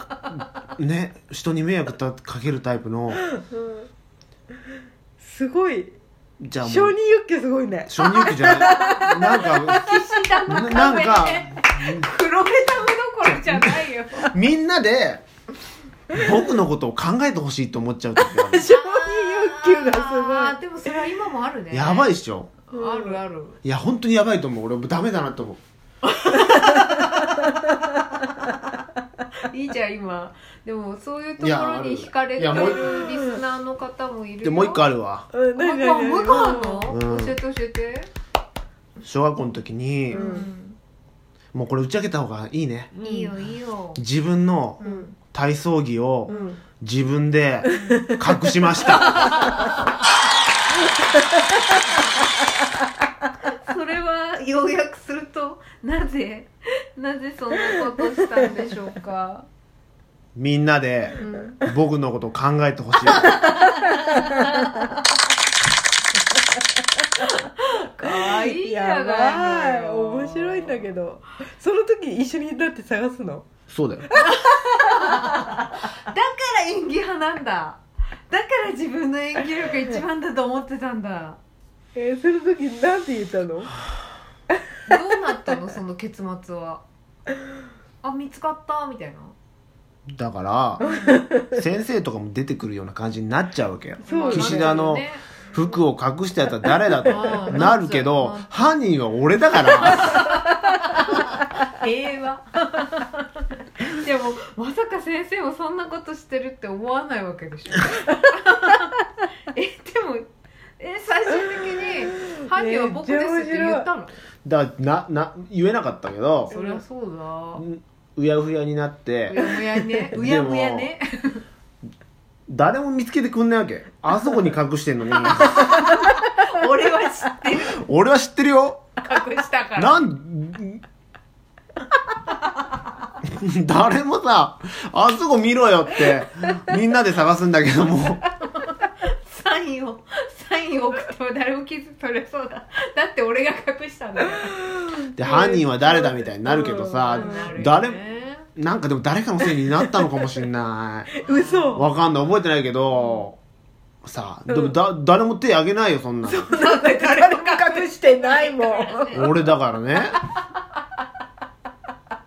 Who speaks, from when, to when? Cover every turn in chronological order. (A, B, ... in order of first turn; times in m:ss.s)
0:00.3-0:03.2 A
0:05.2-0:05.9 B
0:06.4-0:06.9 A
0:06.6-0:10.0 B
0:07.9-0:12.1 A
0:08.5-0:14.3 C
0:13.2-0:15.2 A
0:16.1-0:18.7 A
0:18.2-0:21.0 B
0:18.7-0:22.2 C
0:21.7-0:22.5 A
0:22.7-0:23.6 C
0:22.7-0:23.2 B
0:23.6-0:25.6 A
0:26.1-0:27.6 C
0:26.3-0:28.5 B
0:29.5-0:34.9 C
0:31.4-0:32.9 A
0:32.5-0:33.4 B
0:34.4-0:35.3 A
0:35.3-0:37.0 B
0:35.6-0:38.1 C
0:36.9-0:37.4 A
0:39.0-0:40.4 A
0:40.1-0:40.8 C
0:40.1-0:40.5 B
0:41.5-0:42.9 A
0:42.9-0:43.3 B
0:43.0-0:44.0 C
0:44.0-0:49.4 A
0:44.8-0:45.1 C
0:44.8-0:45.1 B
0:46.3-0:46.6 B
0:47.6-0:48.4 B
0:47.8-0:48.1 C
0:49.0-0:49.8 C
0:49.1-0:49.7 B
0:51.5-0:51.8 B
0:53.6-0:59.4 C
1:00.4-1:03.4 A
1:01.2-1:01.6 C
1:03.2-1:05.0 C
1:04.1-1:04.4 B
1:07.2-1:10.9 C
1:08.0-1:13.4 B
1:13.7-1:14.1 A
1:14.1-1:14.5 B
1:14.2-1:21.4 C
1:21.9-1:23.7 B
1:24.9-1:26.8 C
1:28.0-1:29.3 C
1:30.1-1:30.8 A
1:30.8-1:31.2 C
1:30.8-1:31.6 B
1:31.4-1:40.3 A
1:34.0-1:35.7 C
1:34.0-1:34.8 B
1:37.0-1:38.8 C
1:39.8-1:43.2 C
1:43.8-1:49.0 C
1:49.5-1:50.3 C
1:50.8-1:54.2 C
1:51.4-1:53.9 B
1:54.4-1:56.5 A
1:56.5-1:57.6 C
1:56.5-1:56.8 B
1:57.6-2:00.9 A
1:59.3-2:01.4 C
2:02.5-2:05.8 A
2:05.3-2:07.8 C
2:07.6-2:08.9 A
2:09.0-2:10.0 C
2:09.8-2:10.8 A
2:13.2-2:18.2 A
2:18.4-2:28.4 C
2:24.7-2:27.7 B
2:25.2-2:28.0 A
2:28.5-2:31.1 A
2:29.8-2:30.3 B
2:31.2-2:31.9 B
2:31.2-2:31.9 C
2:31.7-2:33.4 A
2:32.9-2:33.2 C
2:34.0-2:36.5 A
2:36.2-2:39.2 B
2:36.5-2:39.4 C
2:39.1-2:40.2 A